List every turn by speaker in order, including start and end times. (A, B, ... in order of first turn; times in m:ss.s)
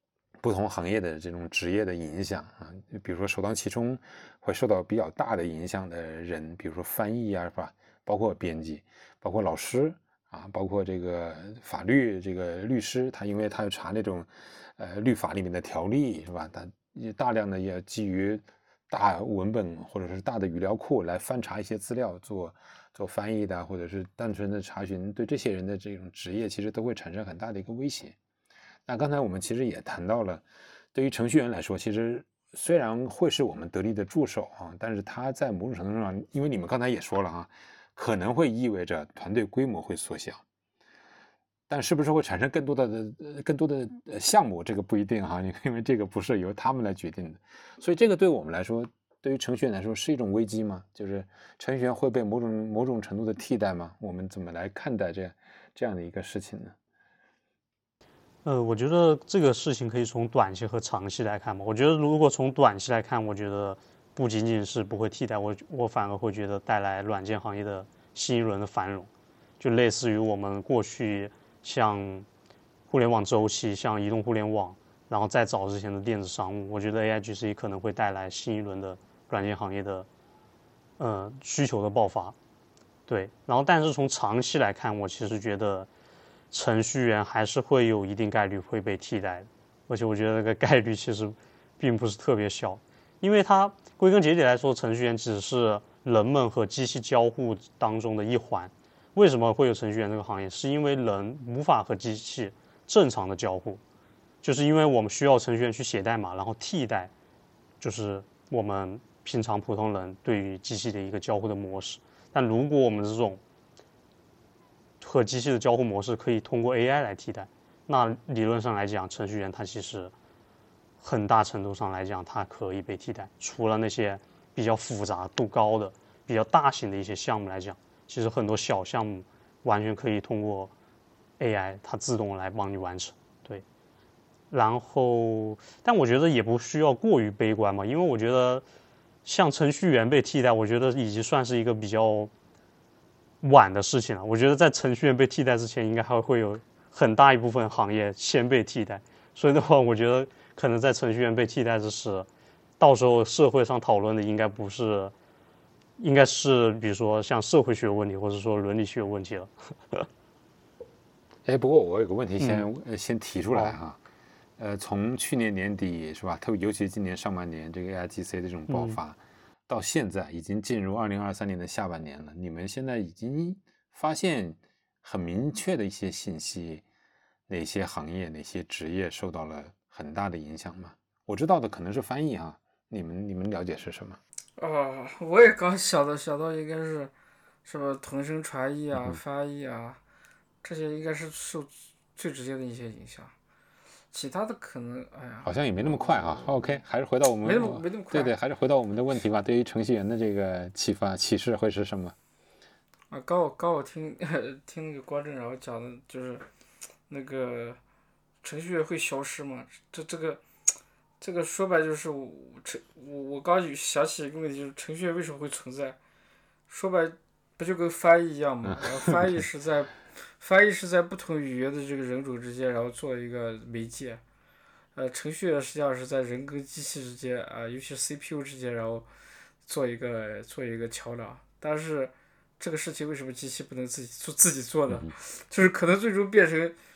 0:00.4-0:28.1 A
0:28.8-0:30.4 A
0:30.9-0:40.4 A
0:41.7-0:56.8 A
0:58.4-1:09.1 B
1:09.6-1:12.3 B
1:12.9-1:20.1 B
1:21.0-1:22.3 B
1:23.1-1:25.9 B
1:26.5-1:43.8 B
1:44.4-1:47.1 B
1:47.8-1:53.4 B
1:55.0-2:00.1 B
2:01.0-2:10.7 B
2:11.4-2:13.6 B
2:14.5-2:18.6 B
2:19.2-2:22.3 B
2:23.4-2:32.3 B
2:32.8-2:35.1 B
2:36.0-2:40.1 B
2:41.4-2:44.0 A
2:42.4-2:42.6 B
2:44.6-2:56.8 A
2:48.7-2:49.0 B
2:57.5-3:04.2 A
3:04.6-3:07.1 C
3:07.6-3:10.0 C
3:10.6-3:13.3 C
3:14.1-3:16.8 C
3:15.4-3:22.2 A
3:17.4-3:18.3 C
3:23.1-3:26.4 C
3:27.1-3:27.8 C
3:28.4-3:30.4 C
3:31.2-3:36.0 C
3:36.7-3:44.2 C
3:38.7-3:39.2 A
3:44.9-3:49.1 C
3:49.6-3:56.8 C